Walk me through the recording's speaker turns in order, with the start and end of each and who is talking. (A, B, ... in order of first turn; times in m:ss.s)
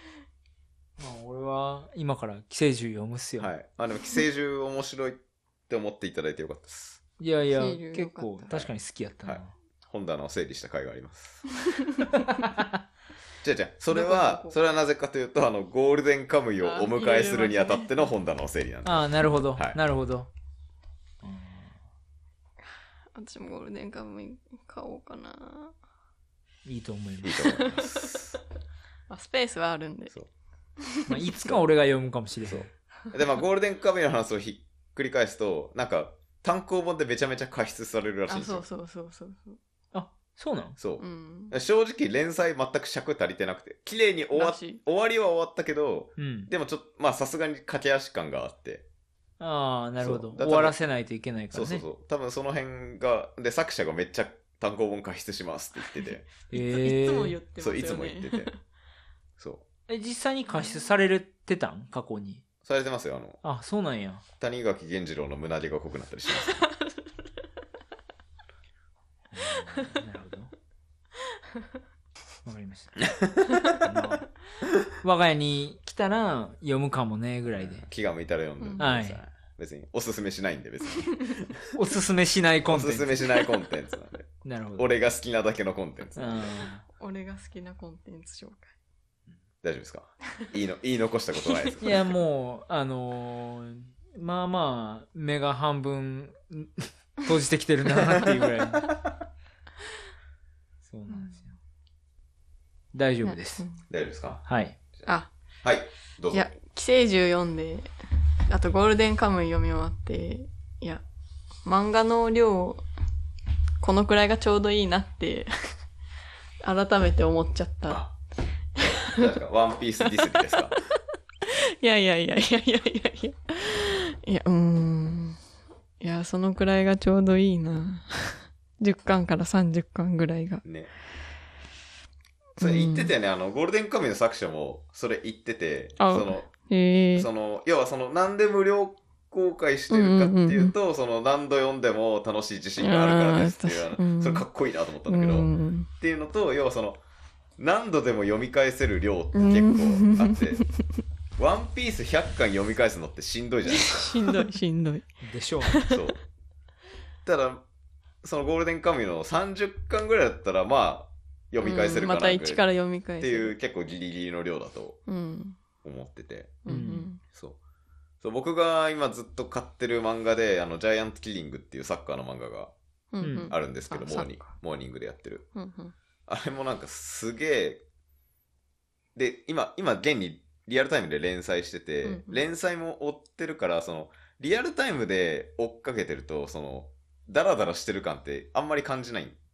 0:01.0-0:03.5 A
0:03.4-0:07.0 B
0:07.2-0:09.5 A
0:07.5-0:08.5 C
0:09.3-0:11.4 B
0:11.7-0:12.1 C
0:12.2-0:12.7 A
0:13.4-0:19.8 B
0:13.9-0:14.6 C
0:16.6-0:18.1 C
0:18.8-0:20.3 A
0:21.2-0:21.7 A
0:23.1-0:25.7 C
0:26.6-0:27.5 A
0:27.2-0:28.4 B
0:27.4-0:28.2 C
0:29.1-0:30.1 C
0:30.8-0:31.2 C
0:31.1-0:32.7 A
0:32.4-0:38.6 B
0:38.3-0:39.6 C
0:39.9-0:40.8 A
0:40.8-0:48.8 B
0:41.0-0:41.6 C
0:44.3-0:44.8 C
0:46.2-0:46.5 A
0:49.4-0:51.8 A
0:50.0-0:50.8 B
0:51.5-0:56.3 B
0:56.5-0:58.5 C
0:56.5-0:57.4 A
0:57.6-0:58.5 B
0:59.4-0:59.6 B
0:59.9-1:02.4 A
1:02.6-1:03.4 B
1:03.4-1:04.2 A
1:04.4-1:06.7 B
1:06.6-1:06.8 C
1:09.3-1:10.5 A
1:12.4-1:13.1 A
1:13.2-1:13.6 B
1:13.5-1:13.8 C
1:13.7-1:14.3 A
1:15.0-1:17.8 A
1:17.6-1:21.6 B
1:18.6-1:18.9 C
1:18.8-1:19.2 A
1:21.7-1:23.2 A
1:22.7-1:26.5 B
1:24.4-1:24.9 A
1:26.2-1:26.8 A
1:26.9-1:28.7 C
1:29.6-1:32.1 B
1:31.8-1:38.9 A
1:40.9-1:41.6 A
1:41.1-1:41.4 C
1:42.9-1:43.6 A
1:43.2-1:43.8 C
1:43.9-1:44.4 B
1:44.4-1:44.8 A
1:45.6-1:46.5 B
1:46.3-1:47.9 C
1:48.5-1:51.0 C
1:51.6-1:52.8 C
1:53.8-1:55.5 C
1:56.6-1:58.0 C
1:58.8-1:59.3 C
1:58.8-2:00.7 B
2:00.0-2:05.4 C
2:06.0-2:10.6 C
2:10.6-2:10.9 B
2:12.6-2:13.1 C
2:12.6-2:16.5 B
2:16.0-2:17.3 C
2:17.1-2:25.5 B
2:19.9-2:20.7 C
2:22.8-2:24.5 C
2:25.1-2:25.9 C
2:26.0-2:27.0 B
2:27.6-2:30.6 B
2:29.4-2:30.7 C
2:31.4-2:34.5 B
2:33.6-2:35.1 C
2:35.2-2:35.8 A
2:35.6-2:36.1 C
2:35.8-2:36.2 B
2:37.2-2:37.6 B
2:38.2-2:42.6 B
2:41.6-2:43.5 C
2:43.2-2:45.0 B
2:45.1-2:45.6 C
2:45.8-2:46.6 B
2:46.6-2:47.2 C
2:46.7-2:47.1 A
2:47.3-2:47.6 B
2:48.2-2:52.7 B
2:53.1-2:54.5 C
2:53.2-2:53.5 A
2:53.5-2:55.5 B
2:55.6-2:55.9 C
2:56.3-2:57.8 B
2:59.1-3:09.4 B
3:02.0-3:02.4 C